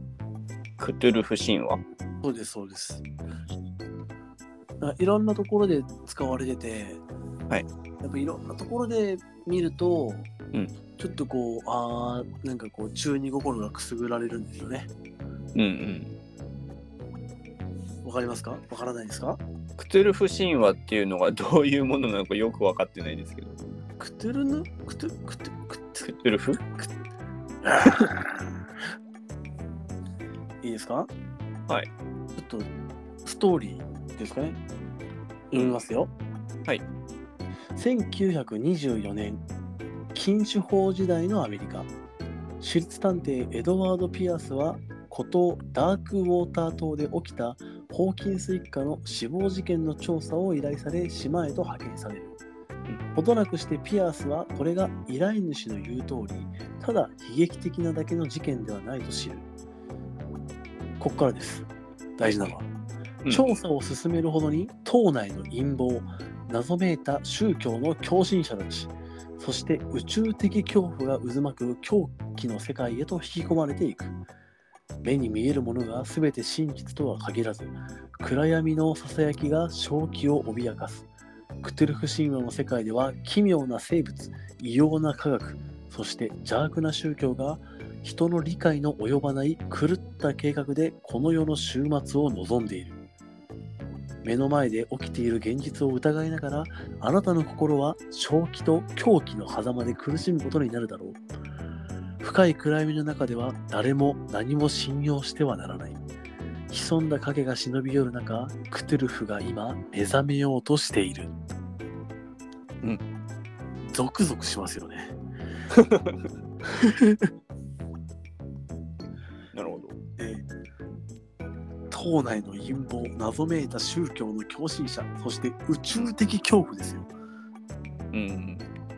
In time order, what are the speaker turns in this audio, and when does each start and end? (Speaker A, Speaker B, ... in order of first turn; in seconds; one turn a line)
Speaker A: 0.8-1.8
Speaker B: 2.2-3.0
Speaker B: 4.8-7.0
Speaker B: 8.0-10.3
Speaker B: 11.0-14.9
Speaker A: 15.5-16.1
Speaker B: 18.0-19.4
Speaker A: 19.8-23.6
Speaker B: 24.0-26.1
Speaker A: 26.0-26.6
Speaker B: 27.6-28.4
Speaker B: 30.6-31.1
Speaker B: 32.4-32.7
Speaker B: 33.2-34.6
Speaker B: 35.5-36.1
Speaker B: 37.7-39.4
Speaker B: 40.1-41.9
Speaker B: 42.6-52.4
Speaker B: 53.1-59.5
Speaker B: 61.0-62.7
Speaker B: 63.3-74.1
Speaker B: 75.0-81.1
Speaker B: 81.6-93.0
Speaker B: 94.2-101.2
Speaker B: 102.2-106.0
Speaker B: 106.7-111.3
Speaker B: 113.9-115.1
Speaker A: 115.7-116.2
Speaker B: 116.6-117.3
Speaker A: 119.5-120.0
Speaker B: 120.2-120.5
Speaker B: 121.9-127.1
Speaker A: 128.1-128.7